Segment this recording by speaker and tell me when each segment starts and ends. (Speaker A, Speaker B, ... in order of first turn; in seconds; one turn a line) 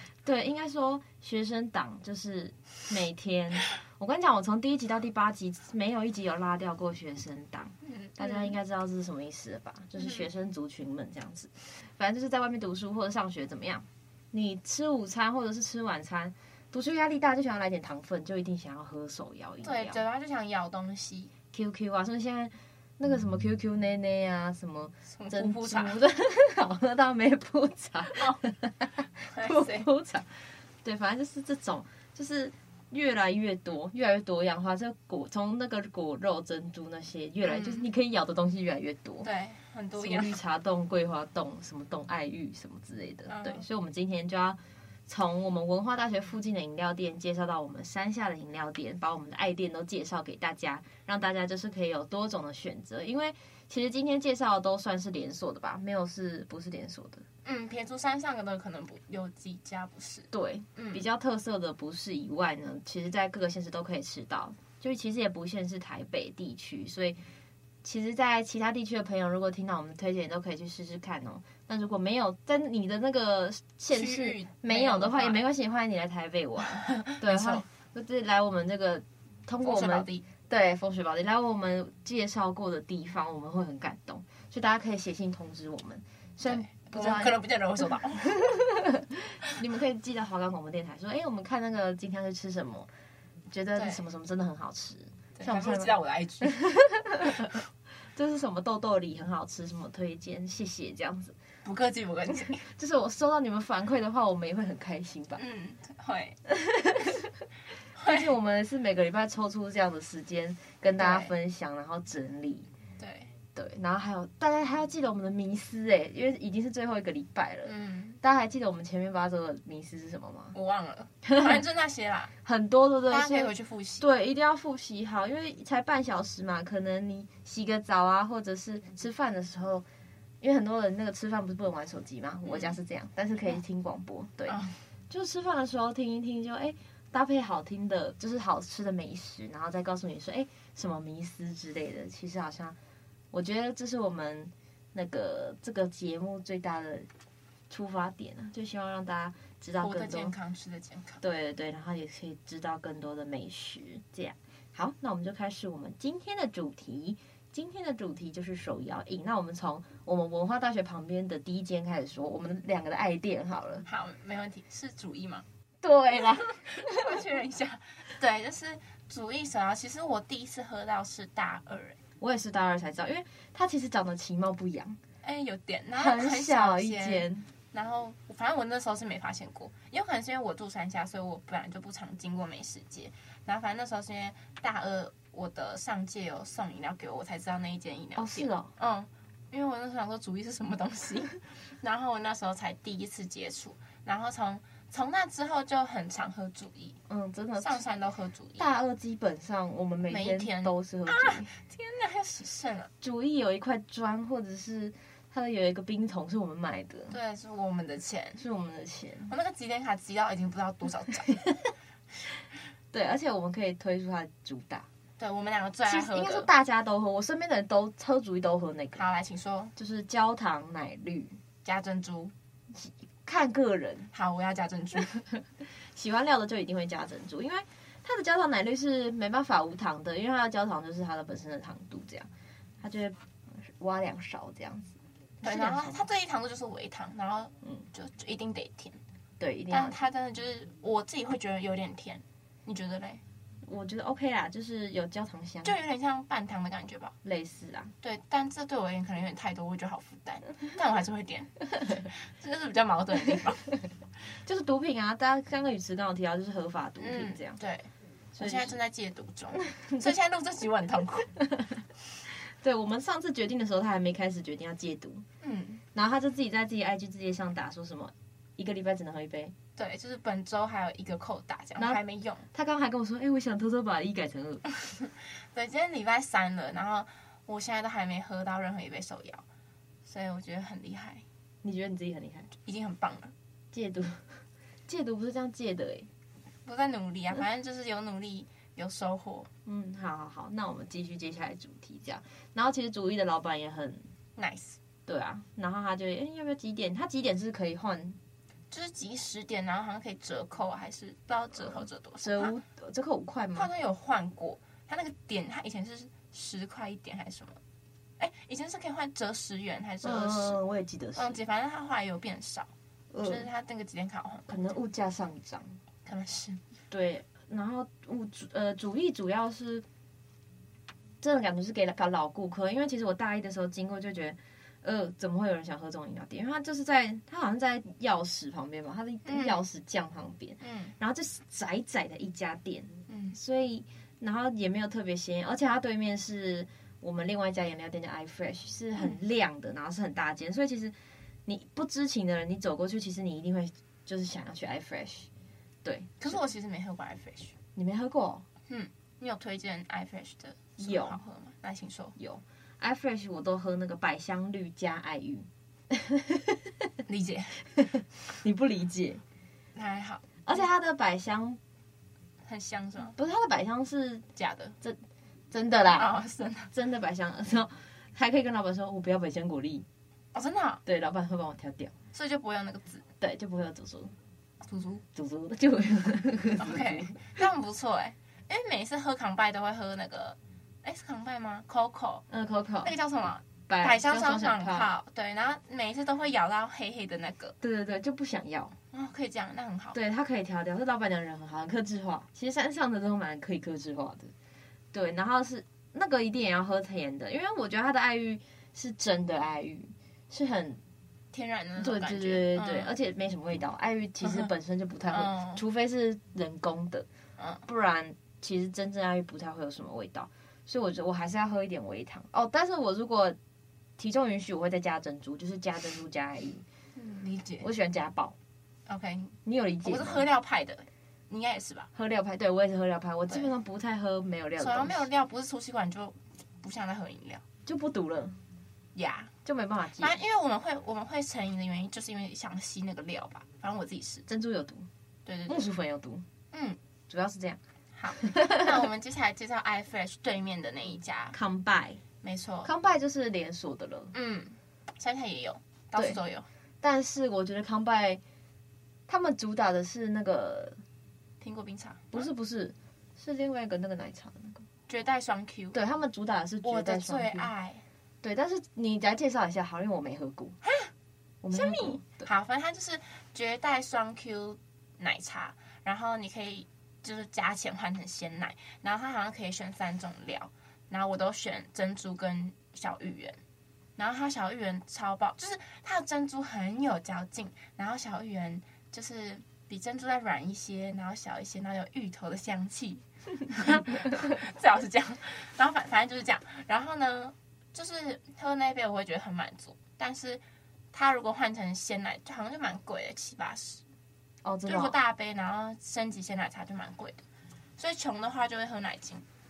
Speaker A: 0.2-20.0
Speaker B: 7.8-8.5
Speaker B: 10.0-10.2
Speaker B: 19.6-21.3
Speaker A: 21.5-30.3
Speaker B: 25.1-26.0
Speaker B: 28.1-28.4
Speaker B: 29.2-29.9
Speaker A: 30.8-39.3
Speaker B: 37.4-37.9
Speaker B: 39.2-40.4
Speaker A: 40.0-57.2
Speaker B: 43.3-43.6
Speaker B: 57.4-61.0
Speaker A: 60.3-67.2
Speaker A: 67.8-87.4
Speaker B: 73.9-75.4
Speaker B: 76.7-77.6
Speaker B: 79.6-80.2
Speaker B: 86.4-88.6
Speaker A: 88.3-92.9
Speaker A: 93.5-95.9
Speaker B: 93.8-94.0
Speaker B: 95.4-96.6
Speaker A: 96.4-97.5
Speaker A: 98.1-101.3
Speaker B: 101.6-102.7
Speaker A: 102.7-105.4
Speaker B: 105.3-106.4
Speaker A: 106.5-107.4
Speaker B: 108.0-108.2
Speaker A: 108.0-112.7
Speaker B: 111.0-111.3
Speaker B: 113.0-113.3
Speaker A: 113.5-120.5
Speaker B: 117.6-118.2
Speaker B: 120.5-122.3
Speaker A: 121.2-121.6
Speaker A: 122.4-129.8
Speaker B: 123.1-124.0
Speaker A: 130.4-134.6
Speaker B: 132.4-132.8
Speaker B: 134.5-134.7
Speaker A: 135.1-142.8
Speaker A: 143.3-147.1
Speaker A: 147.7-150.3
Speaker B: 149.8-151.2
Speaker A: 151.2-163.8
Speaker B: 163.9-165.4
Speaker A: 165.8-167.2
Speaker B: 166.3-172.0
Speaker A: 172.2-175.0
Speaker B: 175.2-197.0
Speaker A: 175.9-177.5
Speaker A: 188.2-188.7
Speaker A: 197.1-197.8
Speaker B: 197.6-198.6
Speaker A: 198.6-201.5
Speaker B: 200.1-202.9
Speaker A: 203.0-207.1
Speaker B: 207.1-208.4
Speaker A: 208.3-209.3
Speaker B: 209.3-211.6
Speaker A: 212.9-214.9
Speaker B: 215.2-216.5
Speaker A: 215.8-219.0
Speaker B: 218.9-219.7
Speaker A: 219.8-221.4
Speaker B: 221.6-222.3
Speaker A: 222.7-224.1
Speaker B: 224.1-225.2
Speaker A: 225.3-232.3
Speaker A: 232.8-236.0
Speaker B: 235.4-239.0
Speaker A: 239.4-240.0
Speaker B: 239.7-243.2
Speaker A: 243.6-245.8
Speaker B: 245.6-247.1
Speaker A: 247.2-247.9
Speaker B: 248.0-253.7
Speaker A: 254.4-257.6
Speaker B: 257.0-261.3
Speaker A: 258.3-258.8
Speaker A: 261.4-265.2
Speaker B: 265.4-265.8
Speaker A: 265.9-269.5
Speaker B: 269.8-272.4
Speaker A: 272.5-274.6
Speaker B: 275.0-279.4
Speaker B: 280.0-281.2
Speaker A: 281.6-282.5
Speaker B: 282.6-283.3
Speaker A: 283.7-284.3
Speaker A: 284.9-286.1
Speaker B: 286.6-289.5
Speaker A: 289.6-294.0
Speaker B: 294.4-294.8
Speaker A: 295.1-298.2
Speaker B: 298.7-302.5
Speaker A: 302.2-303.7
Speaker B: 303.5-307.6
Speaker B: 308.2-310.6
Speaker A: 310.0-311.4
Speaker B: 311.1-312.7
Speaker A: 313.1-313.5
Speaker B: 313.2-314.5
Speaker A: 314.5-315.7
Speaker B: 316.1-316.6
Speaker A: 316.9-319.8
Speaker A: 321.2-340.9
Speaker B: 329.2-329.6
Speaker B: 330.6-330.9
Speaker B: 333.1-333.4
Speaker A: 341.4-345.3
Speaker A: 345.8-346.4
Speaker B: 346.2-347.5
Speaker A: 347.8-348.4
Speaker B: 348.7-352.1
Speaker A: 350.8-351.2
Speaker A: 352.2-356.9
Speaker B: 357.1-357.6
Speaker A: 357.7-359.2
Speaker B: 359.7-360.3
Speaker A: 360.4-361.6
Speaker B: 362.4-363.1
Speaker A: 363.1-364.2
Speaker B: 364.4-364.7
Speaker A: 365.5-366.1
Speaker B: 365.9-366.7
Speaker A: 366.7-369.9
Speaker B: 370.3-370.8
Speaker A: 370.8-371.9
Speaker B: 372.1-373.0
Speaker A: 373.2-374.1
Speaker B: 374.6-375.0
Speaker A: 375.1-377.2
Speaker B: 376.6-382.2
Speaker A: 382.3-382.9
Speaker B: 382.8-387.5
Speaker A: 383.7-384.9
Speaker A: 387.6-388.8
Speaker B: 388.9-390.0
Speaker A: 389.9-394.3
Speaker A: 394.9-400.8
Speaker B: 401.3-402.9
Speaker A: 401.8-407.1
Speaker B: 404.2-404.5
Speaker B: 405.1-405.6
Speaker B: 407.4-407.6
Speaker A: 407.6-413.4
Speaker A: 414.0-416.6
Speaker B: 416.9-417.7
Speaker A: 417.6-418.3
Speaker B: 418.9-421.9
Speaker A: 419.4-420.2
Speaker A: 421.9-425.1
Speaker B: 424.6-427.4
Speaker A: 427.6-428.4
Speaker B: 428.9-429.3
Speaker A: 429.4-430.1
Speaker B: 430.0-434.2
Speaker A: 434.3-434.9
Speaker B: 435.2-435.6
Speaker A: 435.5-436.2
Speaker B: 436.5-436.8
Speaker A: 437.1-437.6
Speaker B: 437.9-441.4
Speaker A: 438.2-438.7
Speaker A: 441.3-442.0
Speaker B: 442.2-442.7
Speaker A: 442.6-444.1
Speaker B: 444.1-446.5
Speaker A: 446.8-448.2
Speaker A: 449.1-450.8
Speaker B: 451.4-452.3
Speaker A: 452.1-454.6
Speaker B: 454.9-455.8
Speaker A: 455.7-457.5
Speaker B: 456.6-457.8
Speaker A: 458.2-460.6
Speaker B: 460.6-460.9
Speaker A: 461.4-462.3
Speaker B: 461.5-473.4
Speaker B: 474.0-490.4
Speaker B: 490.9-493.8
Speaker A: 494.4-494.9
Speaker B: 494.6-497.2
Speaker B: 497.8-499.2